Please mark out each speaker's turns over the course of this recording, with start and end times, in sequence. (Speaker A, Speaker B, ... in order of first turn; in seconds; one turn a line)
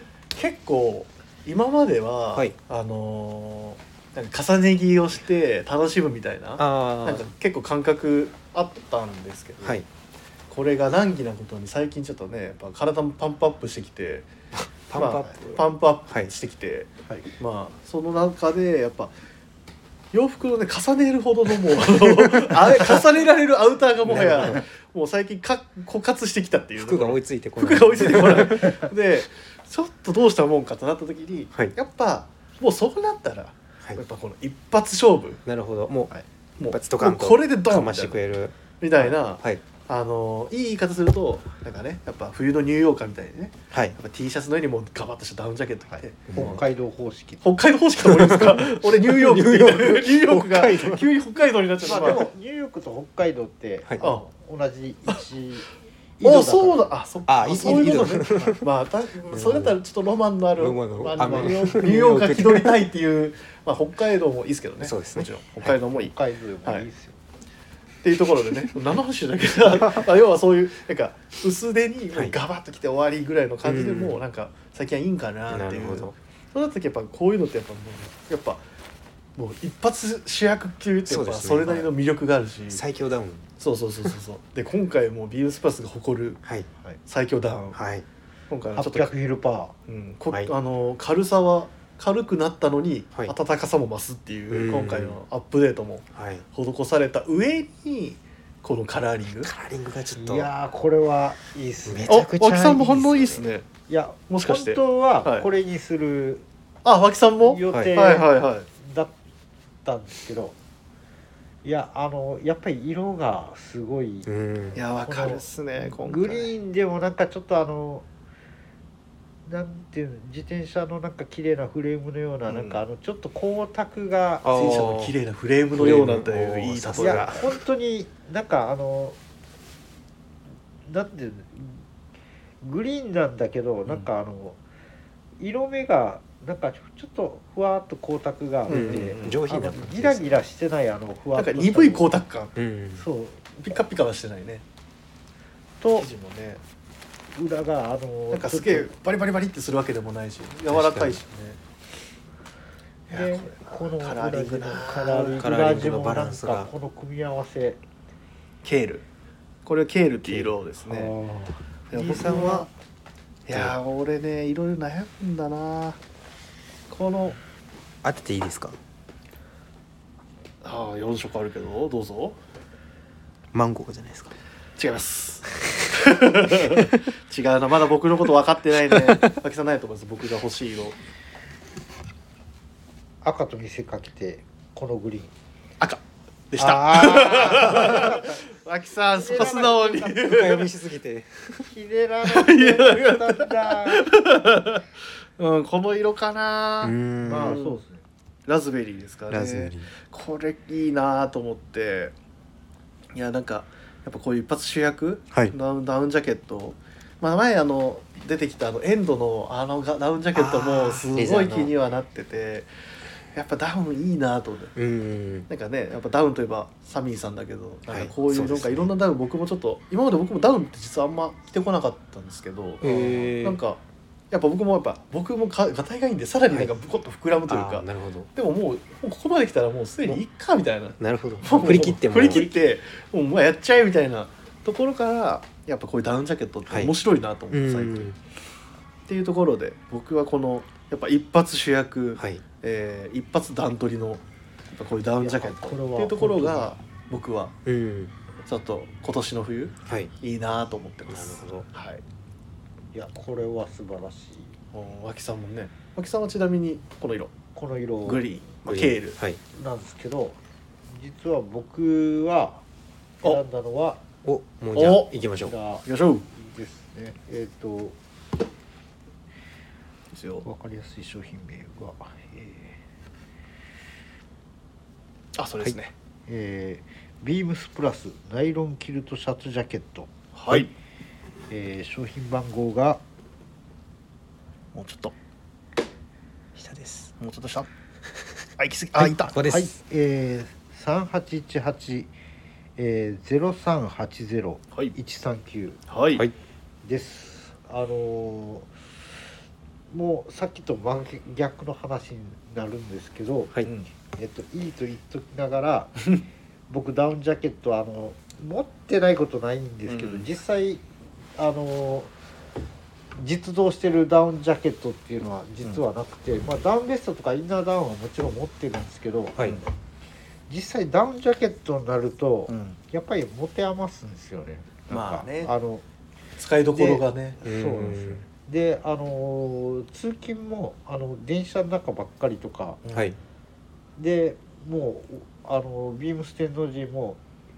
Speaker A: 0.3-9.8
Speaker B: 6.6-7.3
Speaker B: 9.6-9.9
Speaker A: 10.5-14.3
Speaker B: 14.6-16.3
Speaker A: 14.9-19.1
Speaker A: 20.1-35.4
Speaker B: 22.2-23.0
Speaker B: 24.1-24.6
Speaker B: 26.8-28.8
Speaker B: 35.5-36.1
Speaker A: 36.6-38.2
Speaker B: 36.7-39.6
Speaker A: 38.8-46.6
Speaker C: 45.9-47.4
Speaker B: 46.3-46.6
Speaker A: 47.4-52.2
Speaker B: 48.0-51.0
Speaker C: 51.8-55.7
Speaker A: 54.0-54.2
Speaker C: 56.2-56.9
Speaker A: 56.2-66.1
Speaker B: 57.2-58.6
Speaker B: 59.3-59.8
Speaker B: 60.6-62.8
Speaker C: 61.2-62.1
Speaker B: 64.8-65.8
Speaker C: 65.9-67.2
Speaker A: 68.0-78.6
Speaker B: 73.6-74.2
Speaker B: 75.5-76.1
Speaker A: 79.3-82.8
Speaker B: 81.1-81.9
Speaker B: 82.7-83.5
Speaker A: 83.6-86.4
Speaker A: 87.0-87.8
Speaker B: 87.7-88.0
Speaker A: 88.5-89.1
Speaker C: 88.7-89.7
Speaker A: 89.9-99.5
Speaker B: 94.5-95.2
Speaker B: 96.1-96.4
Speaker B: 99.4-100.5
Speaker C: 100.1-102.2
Speaker B: 101.8-103.5
Speaker A: 102.1-103.7
Speaker C: 103.9-106.5
Speaker A: 104.3-105.5
Speaker A: 106.8-108.7
Speaker C: 107.4-109.1
Speaker C: 109.8-110.5
Speaker C: 111.6-114.3
Speaker B: 114.2-114.8
Speaker A: 114.7-116.5
Speaker C: 115.0-118.0
Speaker C: 119.5-124.5
Speaker A: 122.5-122.8
Speaker B: 124.4-125.1
Speaker A: 124.5-127.4
Speaker B: 125.8-127.5
Speaker C: 127.0-129.2
Speaker C: 130.8-131.8
Speaker C: 132.6-134.6
Speaker C: 135.4-142.1
Speaker A: 138.7-139.4
Speaker B: 138.7-140.4
Speaker A: 141.3-142.5
Speaker B: 142.6-143.0
Speaker C: 143.0-143.5
Speaker A: 143.6-144.6
Speaker C: 145.8-146.1
Speaker A: 145.9-146.6
Speaker C: 147.3-148.9
Speaker A: 148.3-151.6
Speaker B: 150.7-151.2
Speaker A: 153.1-155.5
Speaker C: 153.1-157.8
Speaker B: 155.4-156.7
Speaker A: 158.6-159.1
Speaker A: 159.7-161.1
Speaker B: 160.3-160.5
Speaker C: 160.8-162.6
Speaker B: 161.9-162.7
Speaker A: 161.9-162.7
Speaker A: 163.4-166.0
Speaker B: 163.5-163.7
Speaker A: 166.9-167.4
Speaker B: 168.0-168.8
Speaker A: 170.6-172.3
Speaker B: 173.5-174.3
Speaker A: 174.8-180.9
Speaker B: 175.6-176.0
Speaker B: 176.5-177.0
Speaker B: 178.9-179.3
Speaker C: 183.2-185.3
Speaker A: 185.8-190.7
Speaker C: 186.6-188.4
Speaker C: 189.1-190.3
Speaker B: 190.2-191.7
Speaker C: 191.7-194.1
Speaker A: 192.2-194.8
Speaker A: 195.4-197.8
Speaker B: 196.8-197.6
Speaker C: 197.2-198.0
Speaker A: 198.5-202.1
Speaker B: 199.3-199.9
Speaker A: 203.1-212.7
Speaker B: 210.3-211.7
Speaker A: 213.3-214.7
Speaker B: 214.8-215.5
Speaker A: 215.5-238.1
Speaker B: 217.9-218.9
Speaker B: 222.8-223.6
Speaker B: 227.5-228.3
Speaker B: 231.0-232.5
Speaker B: 236.7-236.9
Speaker B: 237.5-238.2
Speaker A: 239.1-244.2
Speaker B: 242.2-242.4
Speaker A: 244.7-247.5
Speaker C: 245.2-246.7
Speaker B: 247.7-248.1
Speaker A: 248.4-252.0
Speaker B: 249.8-250.1
Speaker B: 251.1-251.7
Speaker C: 252.9-254.5
Speaker A: 254.7-257.3
Speaker C: 257.5-258.2
Speaker A: 258.0-259.2
Speaker B: 258.6-259.4
Speaker C: 259.5-260.4
Speaker C: 260.9-262.6
Speaker C: 263.2-264.0
Speaker B: 264.2-265.5
Speaker A: 264.7-265.2
Speaker C: 265.4-267.9
Speaker A: 265.9-266.2
Speaker A: 270.1-270.4
Speaker C: 270.4-272.3
Speaker A: 275.3-275.9
Speaker C: 276.3-280.1
Speaker A: 280.3-280.7
Speaker C: 281.5-283.0
Speaker A: 284.7-285.1
Speaker B: 286.5-287.1
Speaker A: 287.2-287.7
Speaker B: 288.1-288.4
Speaker A: 288.6-289.3
Speaker C: 289.0-292.1
Speaker B: 289.2-289.7
Speaker C: 292.8-295.8
Speaker A: 295.9-296.2
Speaker C: 296.8-298.7
Speaker C: 299.9-303.6
Speaker C: 304.1-310.8
Speaker A: 309.9-310.3
Speaker C: 311.4-312.1
Speaker C: 313.1-319.6
Speaker C: 320.5-325.8
Speaker A: 322.5-322.8
Speaker A: 324.9-325.5
Speaker A: 326.4-327.4
Speaker C: 326.7-332.8
Speaker B: 327.4-328.2
Speaker A: 332.8-333.1
Speaker B: 332.9-333.2
Speaker C: 334.0-337.2